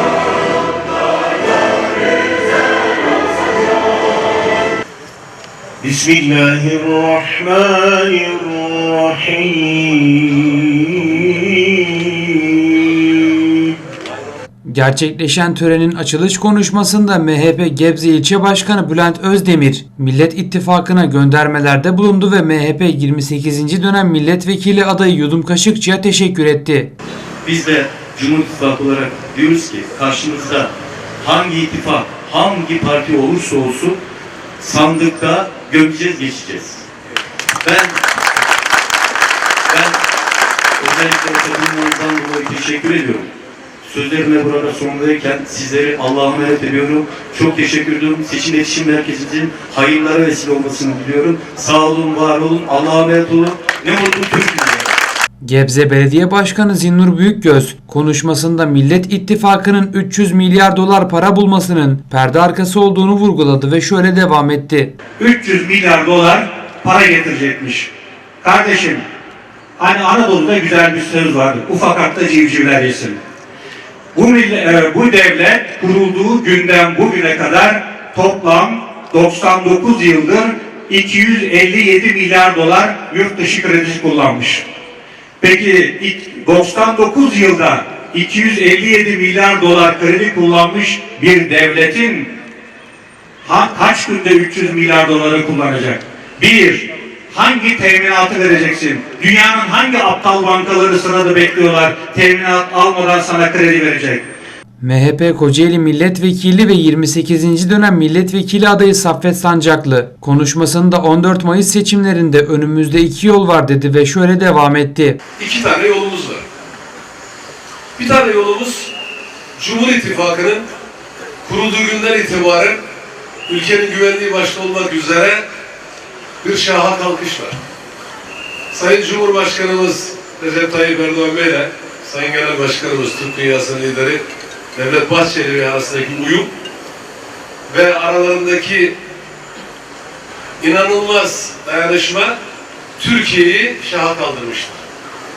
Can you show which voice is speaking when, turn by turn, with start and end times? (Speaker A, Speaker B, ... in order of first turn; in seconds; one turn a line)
Speaker A: 5.8-11.6
Speaker B: 14.7-26.9
Speaker C: 27.4-34.0
Speaker C: 34.6-36.8
Speaker C: 37.6-38.0
Speaker C: 39.7-40.0
Speaker C: 40.8-43.3
Speaker C: 43.8-54.9
Speaker B: 55.4-64.9
Speaker D: 65.2-67.9
Speaker D: 68.4-69.0
Speaker D: 69.8-73.2
Speaker D: 74.1-84.6
Speaker D: 85.4-92.3
Speaker D: 93.4-104.2
Speaker B: 104.8-115.2
Speaker E: 115.4-116.4
Speaker E: 118.0-118.9
Speaker E: 119.6-120.6
Speaker E: 121.4-122.8
Speaker E: 123.5-125.4
Speaker E: 126.4-127.6
Speaker E: 128.7-134.2
Speaker E: 134.7-136.5
Speaker E: 137.7-138.9
Speaker E: 140.6-142.3
Speaker E: 143.0-144.8